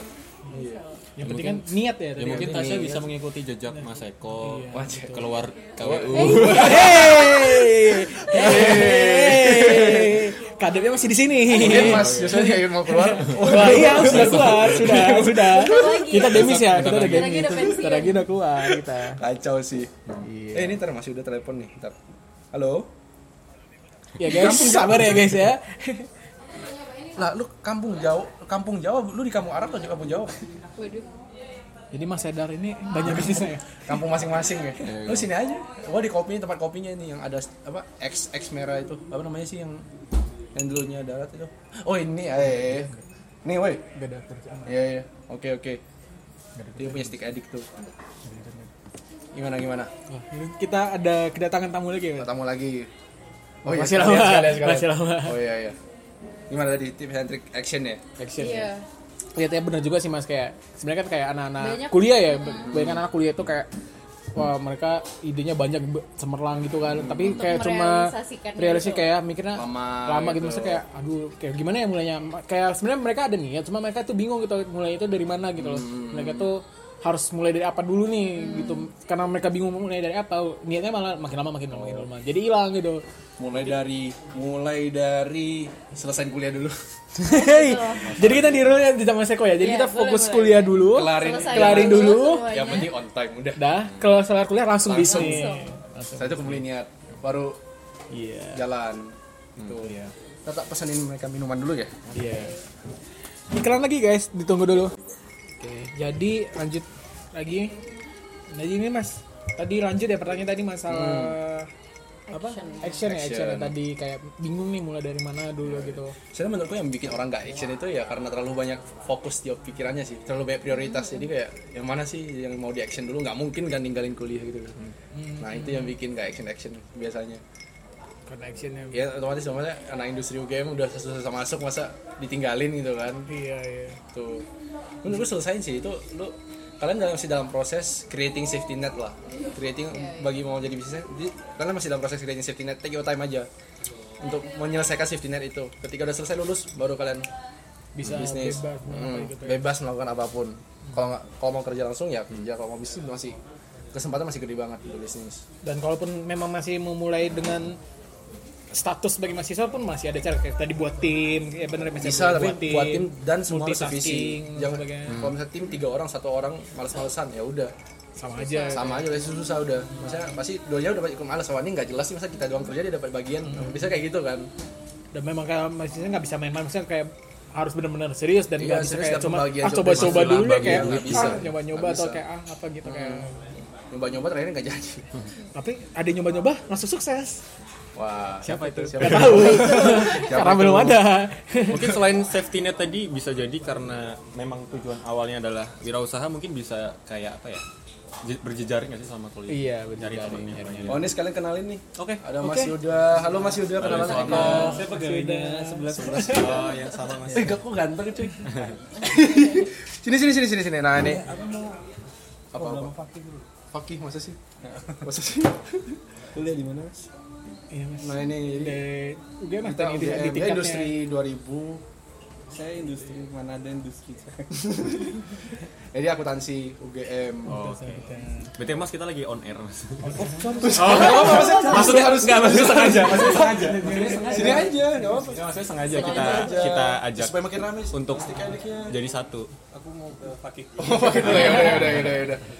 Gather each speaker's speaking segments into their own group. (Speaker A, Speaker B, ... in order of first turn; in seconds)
Speaker A: 0.5-0.8, 2.3-3.0, 4.7-5.2, 5.8-7.7, 8.2-10.3, 11.5-15.9, 19.1-20.0, 20.5-22.0, 22.5-22.9, 24.2-25.4, 27.1-30.5, 33.0-39.9, 40.5-43.8, 44.7-45.8, 46.8-47.7, 49.3-49.9, 52.2-52.9, 53.6-55.8, 56.5-58.0, 62.6-63.0, 67.0-67.5, 69.5-70.8, 75.6-76.5, 81.7-82.1, 83.4-86.8, 90.9-93.6, 94.8-95.6, 96.1-97.6, 98.5-99.9, 100.5-102.0, 110.9-111.4, 113.0-113.7, 115.7-124.8, 125.4-127.4, 128.9-133.3, 134.1-134.5, 135.0-143.5, 144.2-147.3, 148.0-153.4, 153.9-155.4, 162.0-167.7, 168.7-174.5, 178.6-182.2, 182.8-183.3, 183.9-185.2, 187.9-191.1, 200.9-204.8, 205.9-206.7, 207.3-211.3, 212.5-212.9, 213.7-214.4, 215.0-216.2, 218.0-218.8, 219.6-221.8, 224.8-225.4, 225.9-227.6, 230.6-233.7, 234.3-238.6, 240.8-242.4
Speaker B: 0.6-1.0, 15.3-18.2, 30.8-31.1, 58.4-58.9, 61.6-62.7, 67.2-69.1, 78.5-78.8, 87.3-88.2, 89.6-92.9, 95.0-95.7, 102.2-102.6, 112.3-113.0, 139.9-140.3, 168.4-168.9, 235.9-236.6
Speaker C: 1.2-3.0, 4.4-5.2, 6.1-19.2, 20.2-20.8, 24.2-26.1, 31.9-34.0, 42.6-43.0, 43.9-44.8, 46.6-47.1, 48.3-48.7, 50.1-52.3, 53.6-55.4, 58.2-58.7, 59.4-63.7, 64.3-83.0, 87.2-92.5, 93.6-96.6, 98.1-98.7, 99.8-100.1, 102.1-102.6, 103.5-104.9, 105.6-107.8, 108.5-111.7, 112.3-116.2, 125.2-125.9, 128.3-129.1, 133.3-134.0, 147.9-149.6, 155.6-157.8, 158.7-165.2, 168.2-169.1, 173.5-173.9, 175.1-183.4, 185.5-187.4, 188.4-192.0, 199.5-201.1, 202.4-202.8, 204.0-206.6, 217.7-220.9, 227.5-228.5, 230.0-232.0, 233.2-234.8, 241.3-242.0
Speaker D: 1.2-7.0, 11.6-12.5, 13.3-15.2, 16.2-17.6, 34.8-35.3, 88.0-88.8, 99.6-99.8, 179.9-181.5, 191.7-197.6, 198.2-201.1, 202.0-202.2, 203.8-205.2, 206.1-207.6, 208.4-208.8, 227.5-234.5, 235.2-239.5, 241.1-242.4
Speaker E: 204.0-206.4, 211.0-211.8, 212.5-213.4, 214.7-215.1, 216.3-217.0, 222.5-225.3, 230.1-236.1, 238.3-238.9, 239.7-241.6